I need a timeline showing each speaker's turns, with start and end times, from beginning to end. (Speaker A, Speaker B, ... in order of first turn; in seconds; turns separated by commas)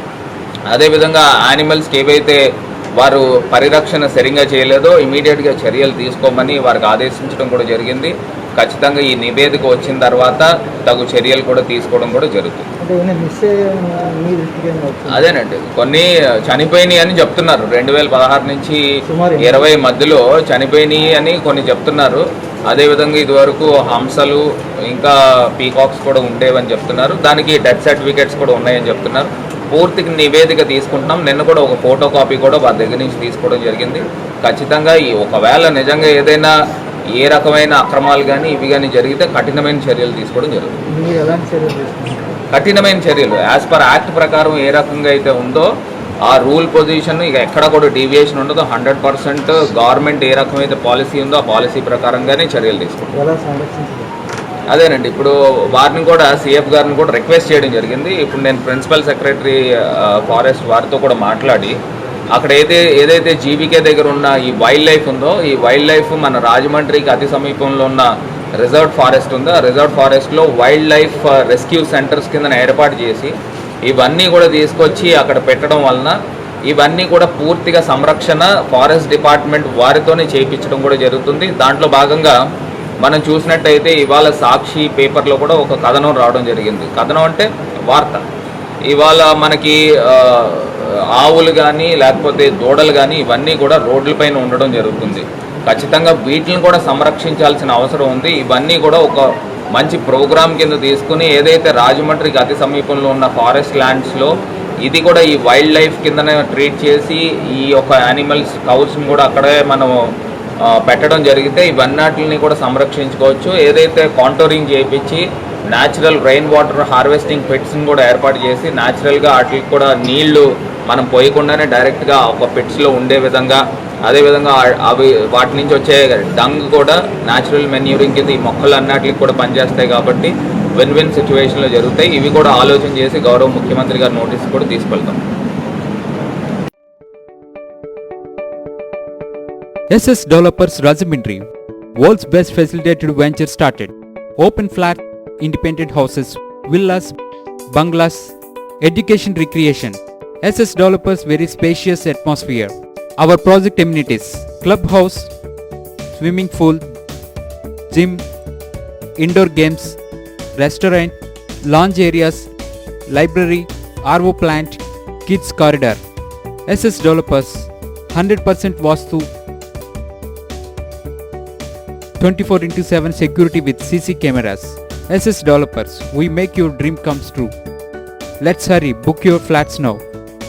Speaker A: 0.7-2.4, Speaker A: 3.0-12.7, Speaker B: 12.8-15.3, Speaker A: 15.1-18.8, Speaker B: 19.1-19.7, Speaker A: 19.4-36.5, Speaker A: 37.2-40.7, Speaker B: 40.9-42.4, Speaker A: 42.5-45.7, Speaker A: 46.3-53.0, Speaker B: 53.1-54.1, Speaker A: 54.7-61.8, Speaker A: 62.3-68.1, Speaker A: 68.6-73.3, Speaker A: 73.9-76.1, Speaker A: 76.7-82.3, Speaker A: 83.0-88.2, Speaker A: 88.9-99.2, Speaker A: 99.8-104.3, Speaker A: 104.8-109.9, Speaker A: 110.9-115.2, Speaker A: 115.7-135.1, Speaker C: 139.9-141.4, Speaker C: 142.0-147.2, Speaker C: 147.7-155.3, Speaker C: 156.2-156.9, Speaker C: 157.9-158.2, Speaker C: 159.2-160.0, Speaker C: 160.6-162.5, Speaker C: 163.1-166.0, Speaker C: 166.7-169.3, Speaker C: 172.2-177.5, Speaker C: 178.4-180.0